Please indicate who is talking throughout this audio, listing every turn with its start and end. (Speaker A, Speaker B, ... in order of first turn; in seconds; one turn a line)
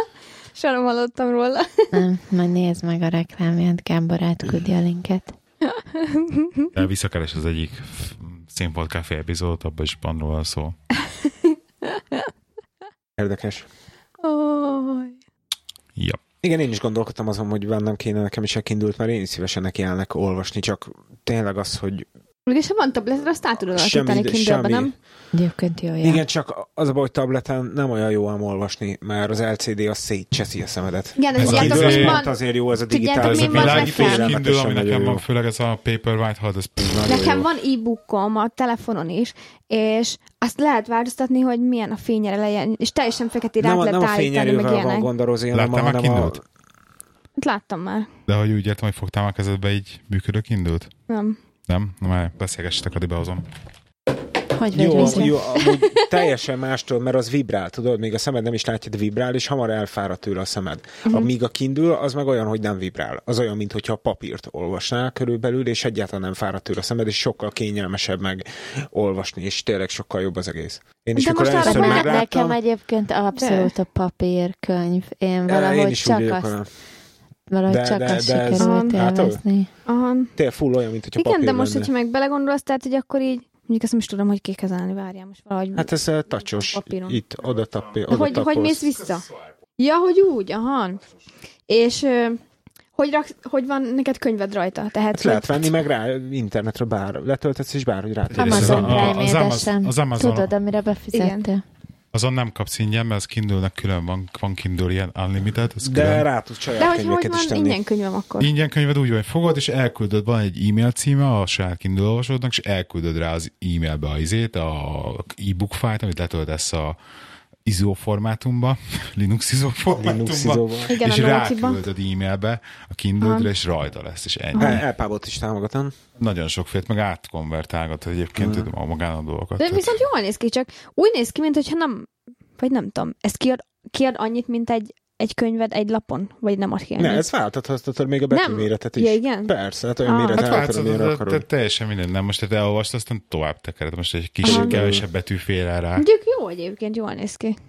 Speaker A: 0.6-2.0
Speaker B: 1.9-5.3
Speaker A: 5.7-6.7
Speaker C: 6.7-10.8
Speaker A: 11.8-12.3
Speaker D: 13.2-13.7
Speaker A: 14.2-15.2
Speaker C: 16.0-16.2
Speaker D: 16.4-22.1
Speaker A: 22.5-24.9
Speaker D: 23.8-24.9
Speaker B: 25.3-26.2
Speaker D: 26.0-35.2
Speaker A: 31.2-32.4
Speaker C: 31.4-32.3
Speaker A: 32.9-34.3
Speaker C: 33.2-37.0
Speaker D: 36.8-37.5
Speaker A: 37.1-45.1
Speaker D: 43.6-46.4
Speaker C: 45.5-46.4
Speaker A: 47.4-48.1
Speaker C: 48.3-50.9
Speaker A: 51.1-51.4
Speaker C: 51.7-53.5
Speaker B: 54.5-55.3
Speaker D: 54.7-72.6
Speaker A: 55.0-55.8
Speaker A: 71.2-72.3
Speaker B: 71.6-76.5
Speaker A: 73.4-73.7
Speaker D: 75.5-76.7
Speaker B: 77.5-79.7
Speaker D: 77.7-79.4
Speaker A: 78.6-79.0
Speaker A: 79.9-80.3
Speaker D: 80.4-81.9
Speaker A: 81.2-85.9
Speaker D: 85.8-88.9
Speaker A: 86.7-87.2
Speaker A: 88.1-89.3
Speaker A: 89.8-91.0
Speaker A: 91.7-92.4
Speaker A: 93.0-95.7
Speaker D: 95.1-99.2
Speaker C: 98.3-100.5
Speaker B: 98.4-101.6
Speaker A: 101.1-101.5
Speaker C: 102.1-106.3
Speaker D: 105.8-107.8
Speaker A: 106.8-108.5
Speaker C: 108.4-117.0
Speaker C: 117.7-124.8
Speaker D: 120.0-121.0
Speaker A: 120.9-121.8
Speaker A: 123.2-123.5
Speaker A: 124.5-124.8
Speaker D: 124.6-126.0
Speaker C: 126.2-130.0
Speaker D: 128.4-128.7
Speaker A: 129.6-137.3
Speaker D: 137.0-141.4
Speaker A: 138.3-139.5
Speaker A: 140.0-140.6
Speaker C: 140.4-146.1
Speaker D: 144.4-145.1
Speaker A: 144.4-144.8
Speaker A: 146.0-147.6